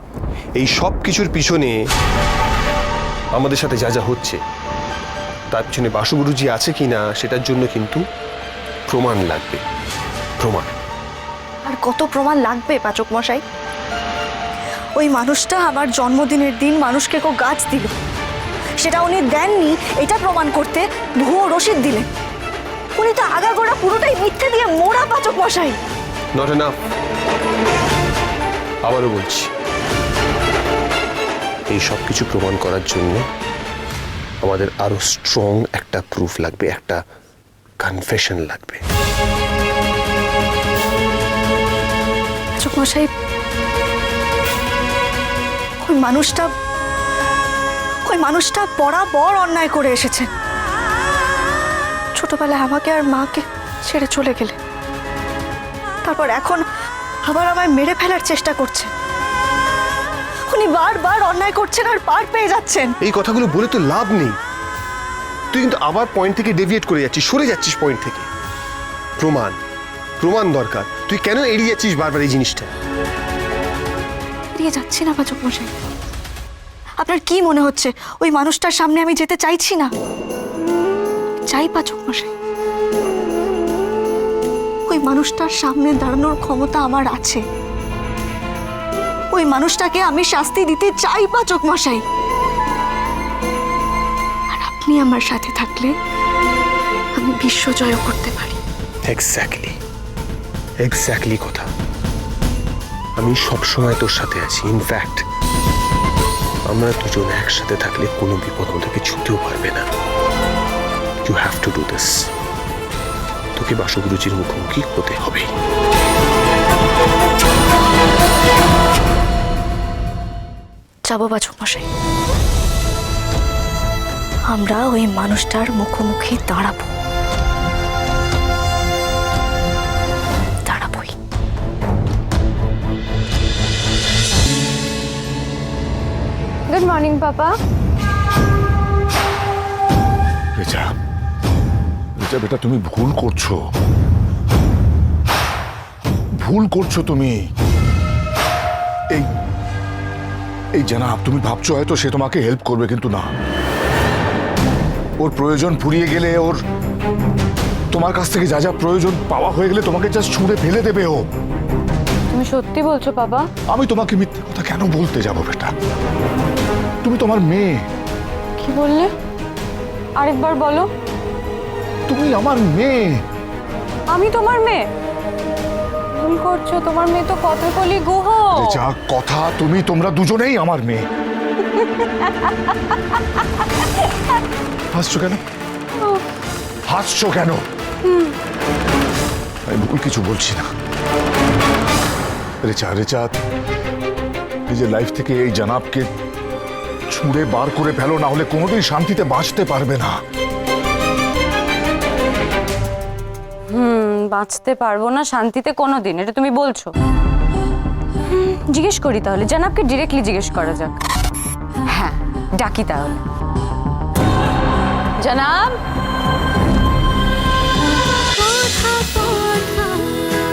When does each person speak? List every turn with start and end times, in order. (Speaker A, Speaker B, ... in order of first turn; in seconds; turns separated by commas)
Speaker A: 0.6-1.8, Speaker A: 3.3-4.4, Speaker A: 5.5-8.0, Speaker A: 8.9-9.6, Speaker A: 10.4-10.7, Speaker B: 11.6-13.4, Speaker B: 14.9-17.9, Speaker B: 18.8-22.1, Speaker B: 23.0-25.8, Speaker A: 26.3-26.7, Speaker A: 28.8-29.5, Speaker A: 31.7-33.2, Speaker A: 34.4-37.0, Speaker A: 37.8-38.8, Speaker B: 42.6-43.1, Speaker B: 45.8-46.5, Speaker B: 48.0-50.3, Speaker B: 52.1-54.5, Speaker B: 56.0-56.6, Speaker B: 57.3-58.9, Speaker B: 60.5-62.9, Speaker A: 63.0-64.3, Speaker A: 65.5-68.3, Speaker A: 69.2-69.5, Speaker A: 70.2-72.7, Speaker B: 74.5-75.7, Speaker B: 77.0-79.9, Speaker B: 81.4-82.3, Speaker B: 84.9-87.4, Speaker B: 89.3-92.0, Speaker B: 94.5-95.9, Speaker B: 97.2-98.6, Speaker A: 99.1-99.8, Speaker A: 100.8-101.7, Speaker A: 103.2-105.2, Speaker A: 106.7-109.8, Speaker A: 111.2-112.3, Speaker A: 113.5-115.5, Speaker B: 121.1-121.8, Speaker B: 124.5-126.9, Speaker B: 130.7-131.1, Speaker C: 136.7-137.5, Speaker D: 140.6-140.9, Speaker D: 142.2-143.6, Speaker D: 146.4-147.4, Speaker D: 150.7-153.3, Speaker D: 155.2-156.6, Speaker D: 157.9-161.2, Speaker C: 162.3-163.5, Speaker D: 163.7-165.7, Speaker D: 167.0-167.8, Speaker C: 168.6-169.1, Speaker C: 170.2-170.9, Speaker D: 172.1-173.2, Speaker C: 174.1-174.8, Speaker C: 176.1-178.8, Speaker D: 178.5-181.0, Speaker C: 181.8-182.5, Speaker D: 184.9-185.4, Speaker D: 186.9-187.6, Speaker C: 188.0-188.3, Speaker D: 189.7-190.7, Speaker D: 192.6-193.3, Speaker D: 194.7-196.1, Speaker D: 197.1-200.2, Speaker C: 203.7-206.9, Speaker C: 208.3-211.0, Speaker C: 211.9-213.2, Speaker C: 215.2-215.8, Speaker C: 218.5-219.4